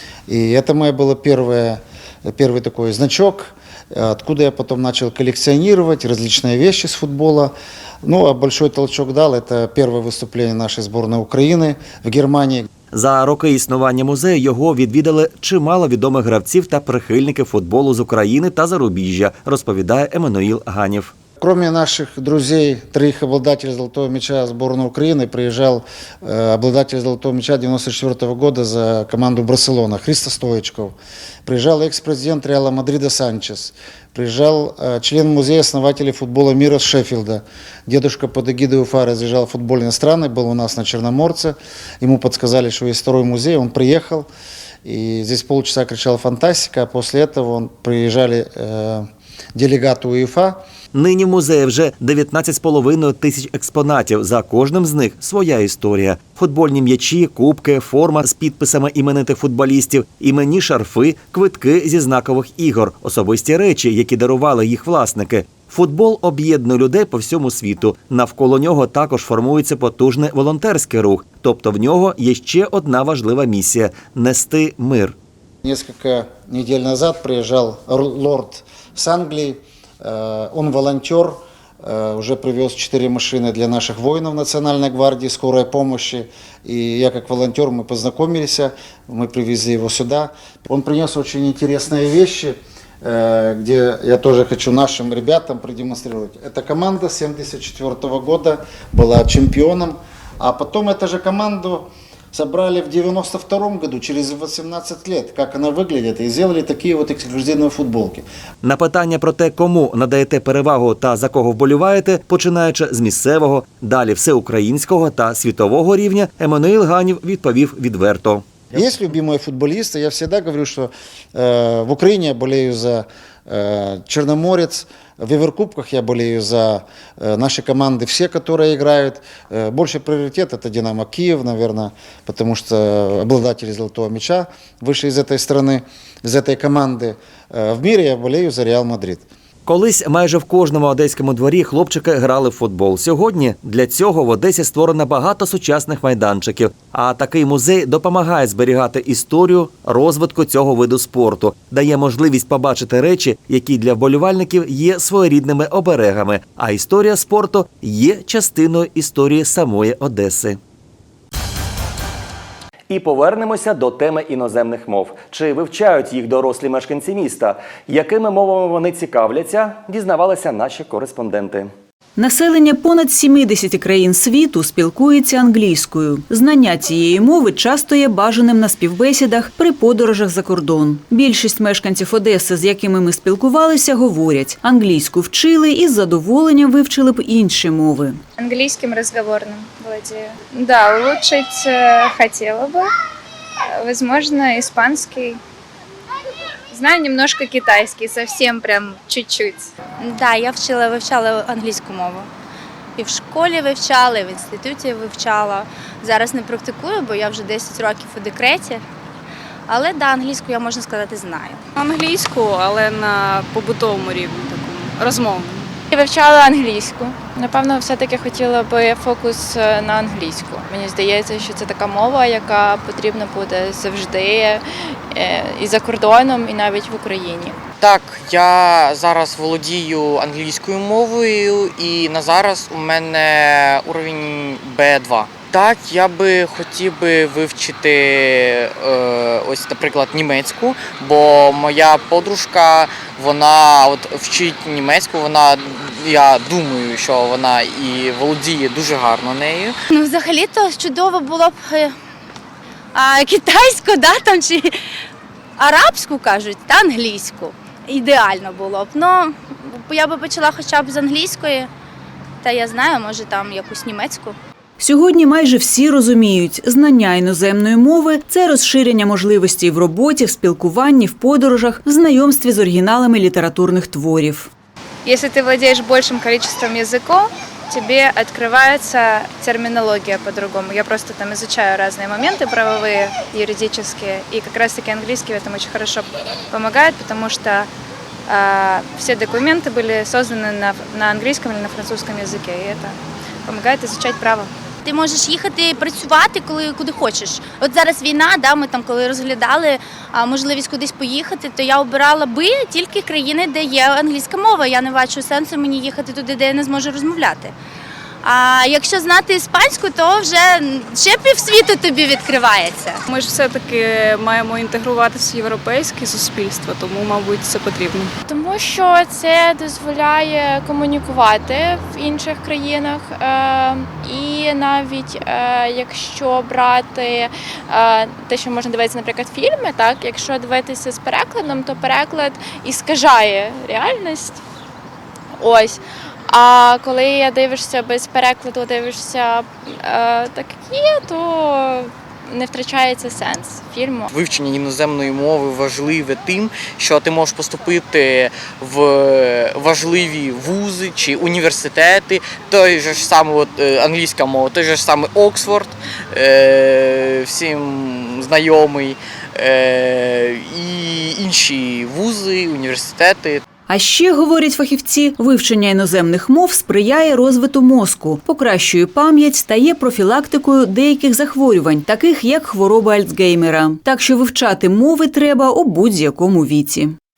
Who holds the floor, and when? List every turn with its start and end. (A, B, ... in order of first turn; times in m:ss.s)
0:00.3-0:12.7 A
0:12.9-0:21.1 B
0:21.4-0:30.9 A
0:31.4-0:44.3 A
0:44.8-0:50.6 A
0:50.9-1:15.1 B
1:15.6-1:48.2 A
1:48.6-1:58.4 B
1:58.7-2:19.2 A
2:19.6-2:40.6 B
2:42.9-2:51.7 B
2:52.2-3:08.2 C
3:08.4-3:12.8 D
3:13.7-3:15.4 D
3:16.7-3:19.7 D
3:20.0-3:22.3 E
3:23.0-3:28.8 E
3:29.7-3:31.6 E
3:31.8-3:35.7 F
3:35.9-3:47.6 D
3:47.8-4:09.7 G
4:09.9-4:11.9 E
4:12.9-4:14.7 E
4:15.6-4:21.7 E
4:22.4-4:24.4 E
4:24.8-4:34.5 C
4:35.0-4:47.7 D
4:48.3-4:54.5 D
4:54.8-5:07.5 E
5:08.2-5:13.0 E
5:13.1-5:18.1 F
5:18.2-5:34.4 D
5:35.4-5:44.1 D
5:44.1-6:03.4 G
6:03.7-6:17.0 C